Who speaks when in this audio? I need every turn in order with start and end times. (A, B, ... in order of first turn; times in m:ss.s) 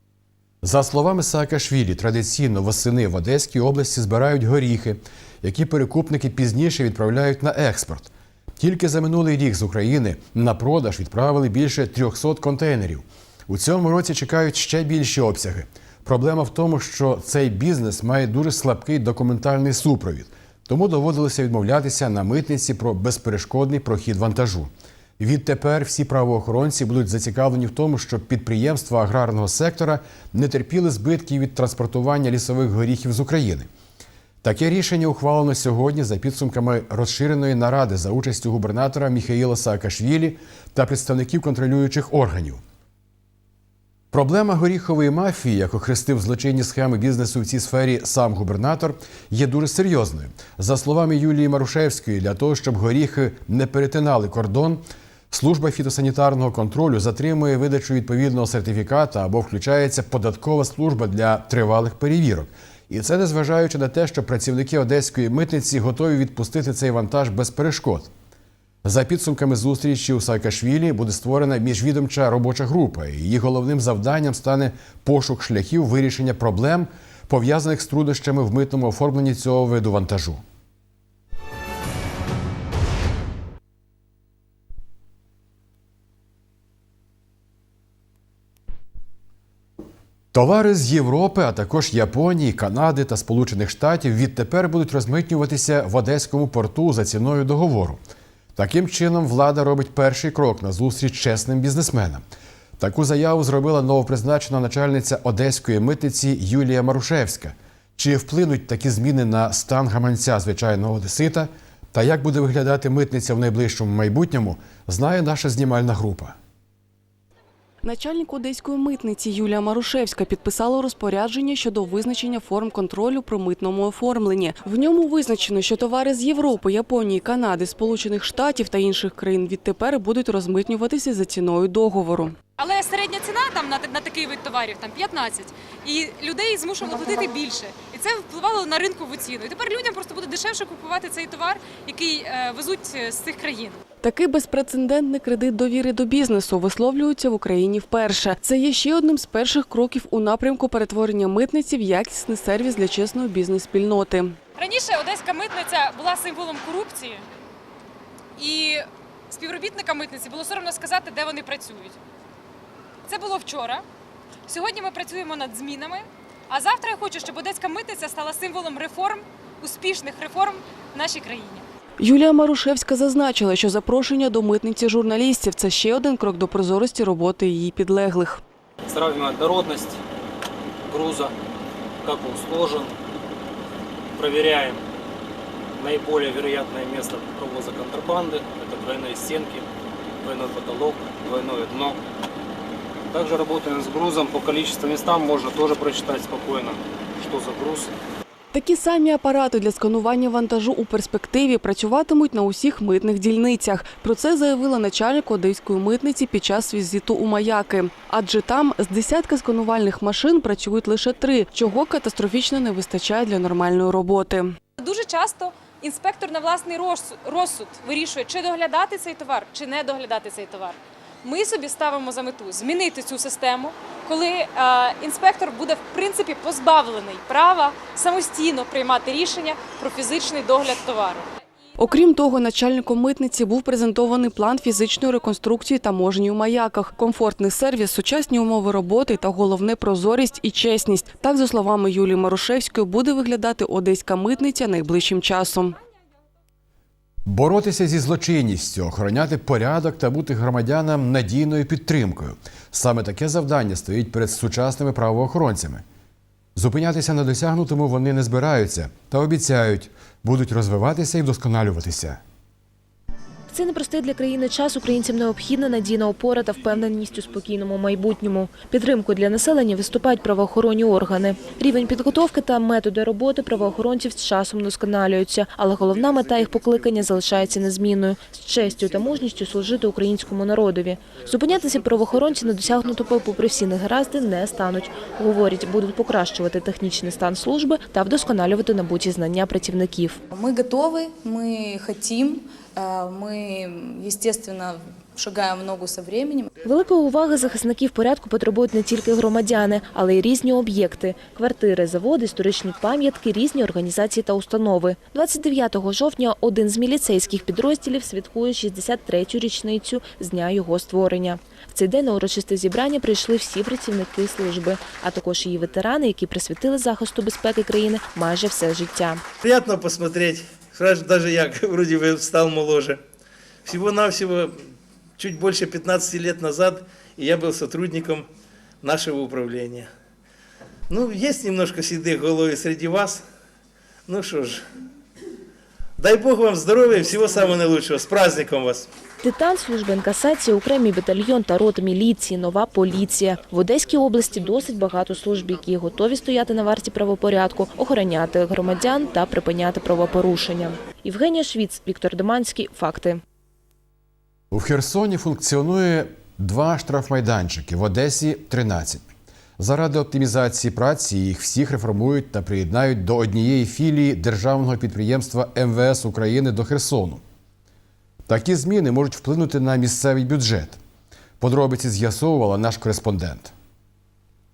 0:00.6-0:33.7 A
0:34.4-0:42.6 A
0:44.1-1:08.1 A
1:08.8-1:20.4 A
1:30.3-1:38.0 A
1:38.6-1:42.2 A
1:42.8-1:56.4 A
1:57.8-2:12.4 B
2:12.6-2:23.8 C
2:24.0-2:34.4 B
2:34.6-2:37.3 C
2:38.4-2:42.0 C
2:43.1-2:43.8 C
2:44.5-2:51.6 C
2:52.0-2:58.4 B
2:58.9-3:00.0 D
3:00.9-3:01.3 D
3:02.0-3:02.9 D
3:04.2-3:04.8 D
3:05.8-3:09.7 D
3:10.2-3:12.0 D
3:13.1-3:17.9 D
3:18.5-3:34.5 B
3:34.8-3:51.3 C
3:51.8-4:05.8 B
4:07.3-4:15.8 A
4:16.6-4:22.2 A
4:23.5-4:50.2 E
4:50.3-4:56.5 F
4:56.6-5:19.2 E
5:19.4-5:23.0 G
5:23.6-5:24.6 G
5:25.2-5:28.3 G
5:28.8-5:29.9 G
5:30.9-5:33.2 G
5:34.1-5:34.6 G
5:36.0-5:38.9 G
5:39.2-5:53.2 E
5:54.5-5:59.0 A
5:59.6-6:07.2 A
6:08.3-6:10.8 A
6:11.4-6:13.5 A